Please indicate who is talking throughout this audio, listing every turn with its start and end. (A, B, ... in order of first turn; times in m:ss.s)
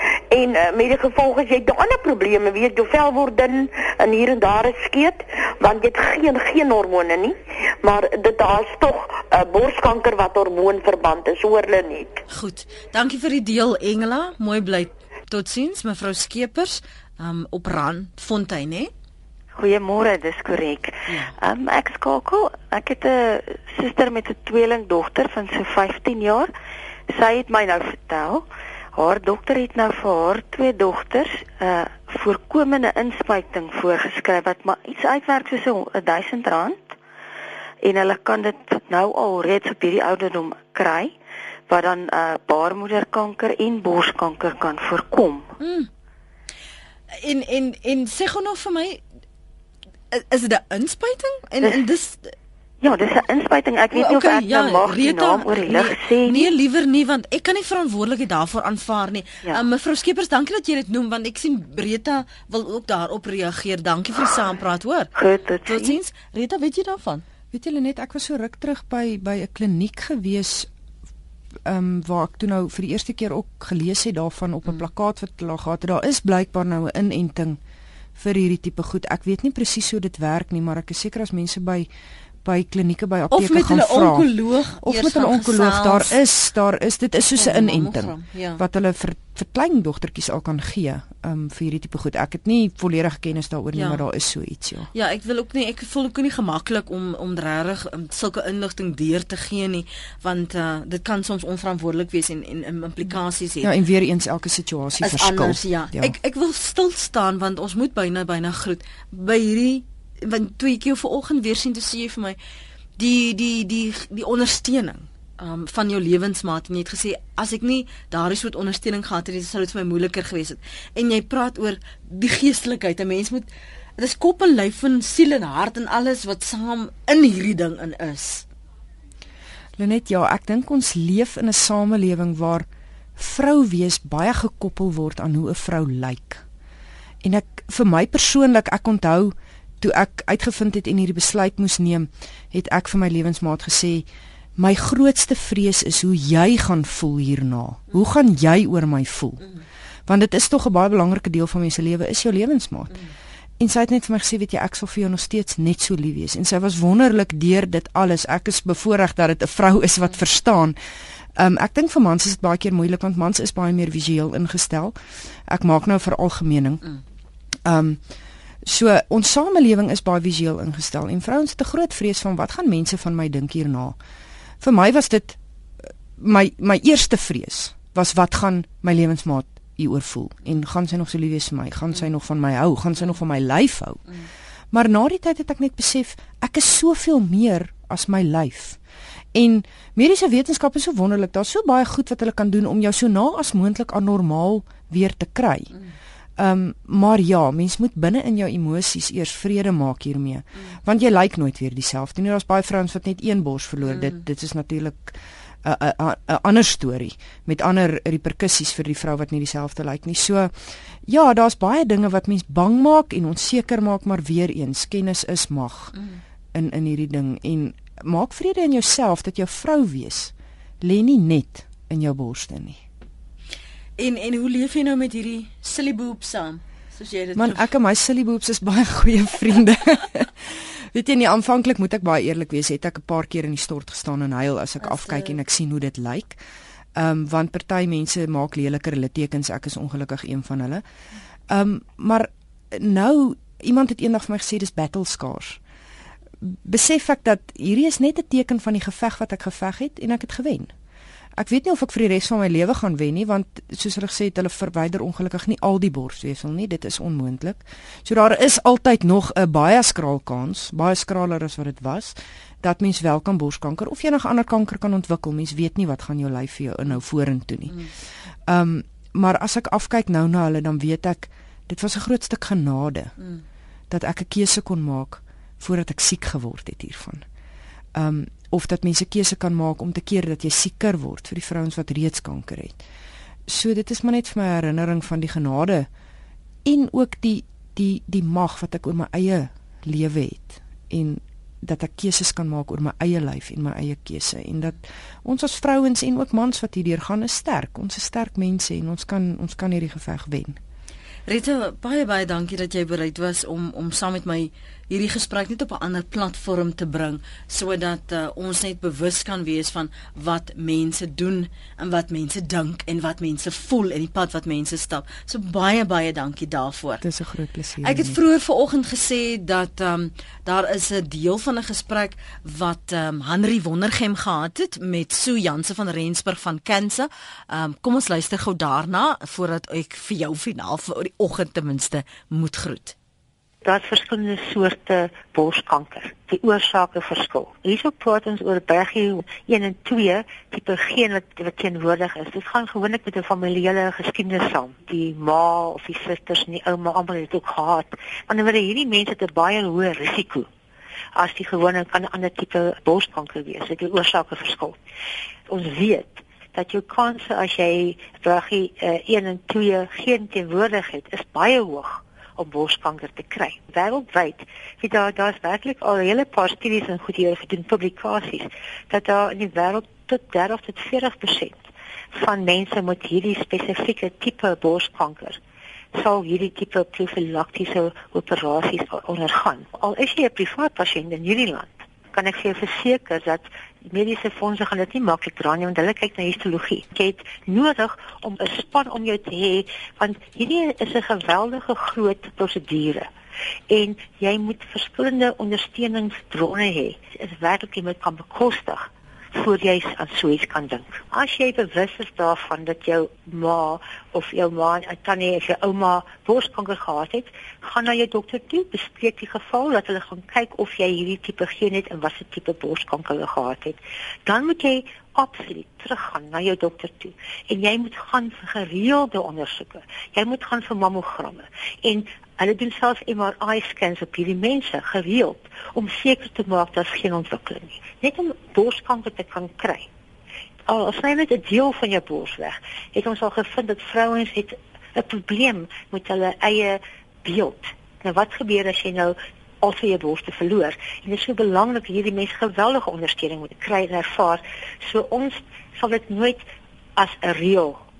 0:00.3-0:12.2 A
0:12.3-0:18.9 B
0:19.5-0:26.5 C
0:21.1-0:21.3 B
0:27.1-0:37.0 C
0:37.8-0:41.1 C
0:41.7-0:45.5 C
0:45.6-0:45.9 B
0:47.1-0:49.0 B
0:50.1-0:52.3 B
0:52.8-0:56.5 C
0:53.9-1:05.1 B
1:05.2-1:06.0 C
1:05.6-1:07.2 B
1:07.5-1:10.7 D
1:11.6-1:17.6 D
1:18.2-1:21.9 D
1:22.4-1:34.9 D
1:23.3-1:26.2 B
1:27.4-1:28.6 B
1:33.7-1:34.0 B
1:34.9-1:43.7 B
1:43.6-1:46.1 D
1:45.0-1:52.4 B
1:53.0-2:08.4 B
2:09.8-2:16.4 D
2:17.2-2:24.0 D
2:24.6-2:29.5 D
2:30.1-2:33.0 D
2:33.6-2:40.8 D
2:41.4-2:45.0 D
2:45.5-2:46.9 D
2:47.6-2:48.0 D
2:48.6-2:54.0 D
2:54.6-3:04.1 D
3:04.7-3:08.8 D
3:09.3-3:15.7 D
3:16.4-3:30.5 D
3:31.0-3:35.9 D
3:36.5-3:42.8 D
3:44.0-3:47.7 B
3:47.4-3:56.4 D
3:54.8-3:55.4 B
3:56.9-4:00.8 D
4:01.5-4:05.6 D
4:06.4-4:10.7 D
4:11.4-4:27.9 D
4:28.5-4:33.2 D
4:33.9-4:37.2 D
4:37.9-4:42.8 D
4:43.5-4:45.9 D
4:46.6-5:00.6 D
5:01.3-5:17.0 B
5:17.0-5:18.2 D
5:17.8-5:32.9 B
5:33.6-5:50.5 E
5:51.1-5:54.8 E
5:55.5-6:15.4 E
6:15.9-6:33.1 E
6:33.7-7:09.9 E
7:10.7-7:26.4 E
7:27.0-7:27.8 E